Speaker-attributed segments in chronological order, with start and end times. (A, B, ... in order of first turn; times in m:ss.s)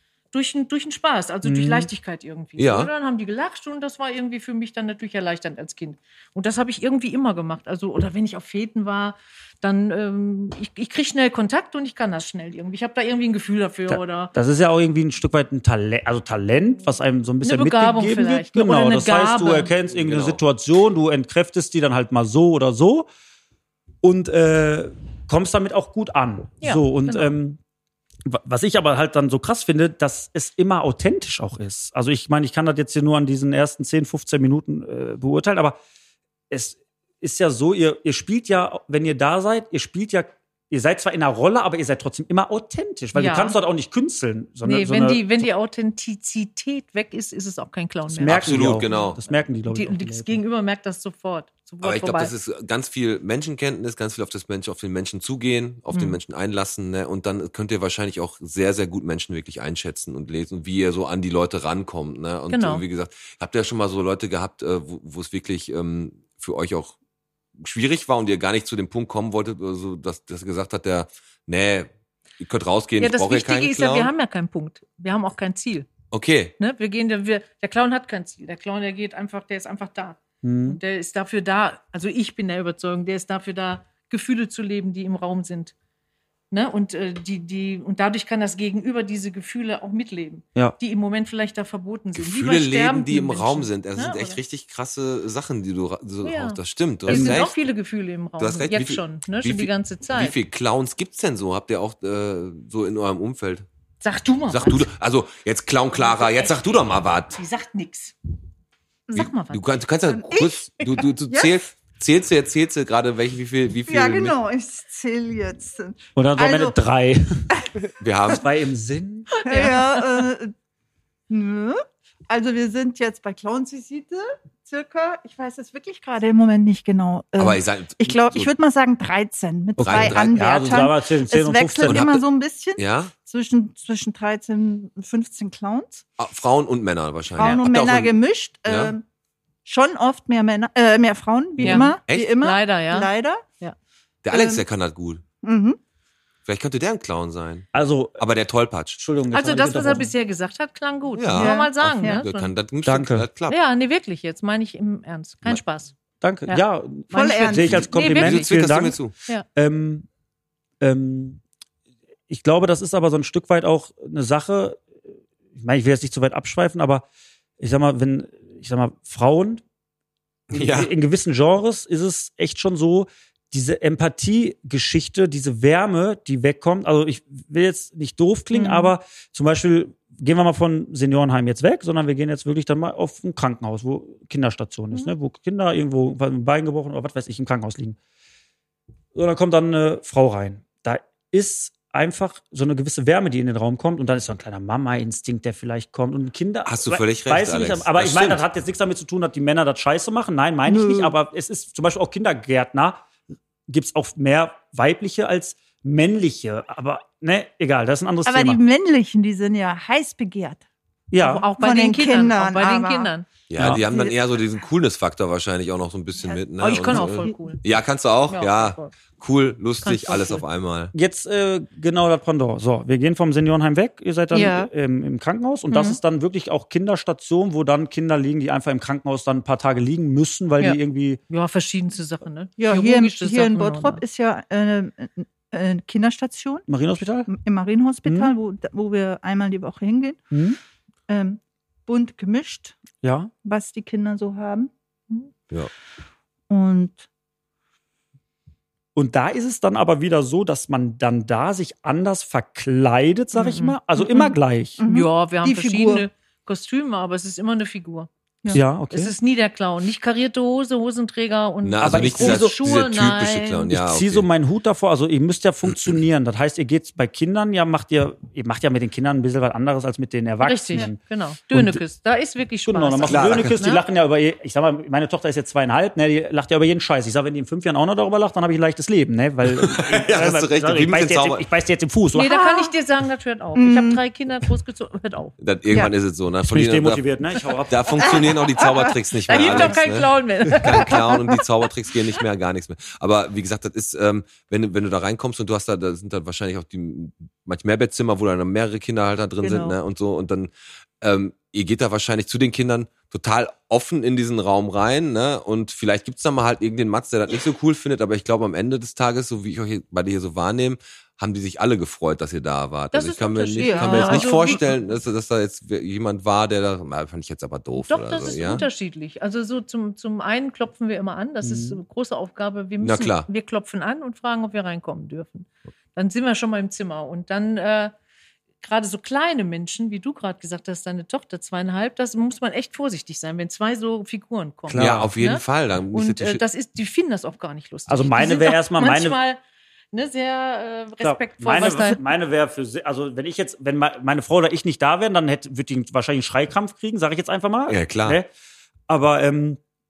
0:00.3-0:14.3 A
0:01.4-0:01.9 B
0:02.6-0:02.9 C
0:13.9-0:23.1 B
0:17.4-0:19.7 A
0:19.9-0:20.4 C
0:24.0-0:27.6 B
0:26.6-0:27.4 A
0:28.3-0:35.8 B
0:36.5-0:45.4 B
0:43.2-0:43.6 A
0:44.6-0:52.3 A
0:48.1-0:50.4 B
0:48.2-0:49.2 C
0:51.8-1:07.0 C
0:55.9-0:56.2 A
1:02.5-1:02.8 A
1:07.6-1:14.1 C
1:13.0-1:15.9 A
1:16.1-1:16.6 C
1:16.6-1:25.7 A
1:20.4-1:20.8 B
1:26.5-1:34.4 A
1:32.2-1:37.6 C
1:36.2-1:40.4 A
1:37.1-1:37.4 B
1:38.4-1:43.7 C
1:44.0-1:44.9 A
1:44.5-1:47.4 C
1:46.0-1:46.6 A
1:47.3-1:48.2 A
1:49.1-1:49.7 A
1:49.2-1:54.4 C
1:50.1-1:51.6 D
1:53.9-1:56.8 D
1:56.2-1:57.5 B
1:58.0-1:58.4 C
1:58.3-1:59.4 B
1:59.4-2:00.2 A
1:59.4-2:00.5 D
2:01.3-2:16.0 D
2:07.4-2:08.5 C
2:09.8-2:10.3 C
2:09.9-2:12.0 B
2:11.9-2:12.2 C
2:12.8-2:13.1 C
2:16.2-2:19.0 C
2:17.4-2:19.0 D
2:19.6-2:23.4 D
2:21.6-2:21.9 B
2:21.6-2:23.8 A
2:22.1-2:22.3 C
2:24.2-2:25.2 C
2:24.3-2:24.6 D
2:25.4-2:25.8 D
2:26.5-2:29.0 C
2:27.7-2:28.2 B
2:29.0-2:30.1 B
2:29.3-2:32.5 A
2:31.2-2:33.6 C
2:31.3-2:32.2 D
2:32.8-2:33.3 B
2:33.5-2:35.9 A
2:36.2-2:39.0 B
2:37.1-2:37.9 D
2:37.7-2:39.1 C
2:37.9-2:38.5 A
2:39.6-2:40.1 B
2:40.8-2:41.4 B
2:42.3-2:44.8 B
2:45.6-2:47.1 B
2:47.6-2:49.6 B
2:50.5-2:50.9 C
2:50.5-3:08.0 B
2:58.5-2:58.9 A
3:09.1-3:23.0 B
3:16.6-3:18.4 C
3:20.7-3:21.2 D
3:23.7-3:28.6 B
3:28.3-3:30.6 D
3:31.1-3:31.4 B
3:31.2-3:33.3 A
3:31.6-3:34.2 D
3:33.5-3:40.9 C
3:36.2-3:37.4 D
3:36.6-3:37.6 A
3:38.3-3:38.9 A
3:39.8-3:40.4 A
3:40.9-3:51.2 B
3:44.3-3:44.7 D
3:50.6-3:54.0 A
3:52.6-3:56.6 D
3:56.7-3:57.3 B
3:57.3-4:00.3 D
3:58.0-3:58.3 B
4:00.3-4:00.6 B
4:01.1-4:02.8 D
4:03.0-4:03.3 B
4:03.4-4:04.7 D
4:06.5-4:07.0 D
4:09.0-4:14.8 B
4:13.4-4:16.0 D
4:13.5-4:13.8 A
4:14.9-4:18.1 A
4:18.5-4:19.1 B
4:18.9-4:23.7 A
4:21.6-4:24.3 C
4:21.8-4:22.6 B
4:23.7-4:31.0 B
4:30.4-4:33.8 A
4:31.5-4:31.8 B
4:32.7-4:42.3 B
4:33.1-4:33.6 C
4:39.5-4:41.5 C
4:42.1-4:45.4 A
4:42.3-4:42.7 D
4:43.6-4:44.0 D
4:45.4-4:47.0 C
4:46.4-4:48.1 B
4:47.7-5:18.7 C
4:48.1-4:48.9 D
4:49.3-4:51.0 A
4:50.8-4:51.4 D
4:59.4-4:59.8 D
5:12.9-5:14.6 A
5:13.6-5:14.7 D
5:17.8-5:27.9 A
5:21.4-5:21.8 B
5:22.8-5:23.3 C
5:28.6-5:39.4 A
5:34.7-5:35.1 B
5:34.7-5:36.4 C
5:37.9-5:39.2 B
5:39.9-5:42.0 A
5:41.0-5:48.3 B
5:47.7-5:48.2 C
5:48.9-5:49.6 B